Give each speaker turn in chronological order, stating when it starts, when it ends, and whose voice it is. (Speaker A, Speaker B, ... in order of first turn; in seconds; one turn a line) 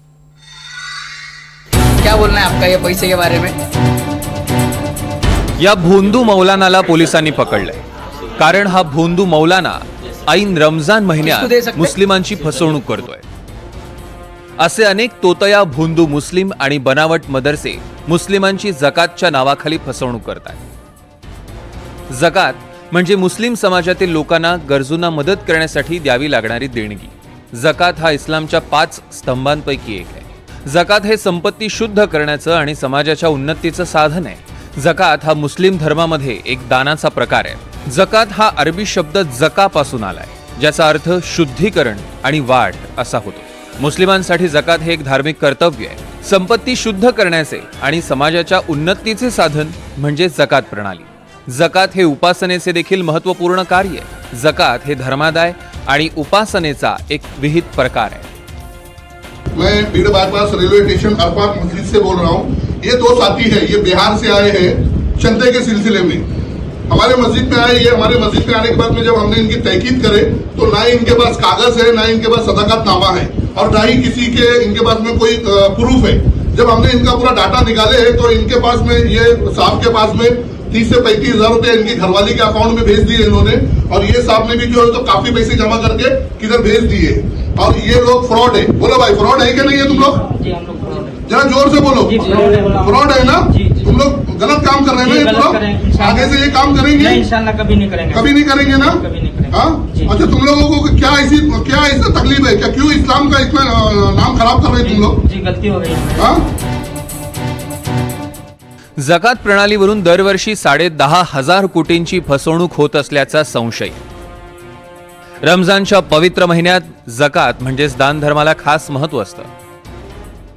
Speaker A: 2.0-3.5
Speaker B: 5.6-7.8
Speaker B: 8.4-13.2
Speaker A: 11.2-11.9
Speaker B: 14.6-20.6
Speaker B: 22.1-58.3
Speaker C: 59.5-66.3
Speaker C: 66.9-90.2
Speaker D: 89.7-91.2
Speaker C: 91.2-97.2
Speaker D: 92.0-93.9
Speaker D: 94.9-100.2
Speaker C: 98.1-105.2
Speaker D: 104.8-106.3
Speaker C: 106.1-106.4
Speaker B: 109.0-114.0
Speaker B: 115.4-119.5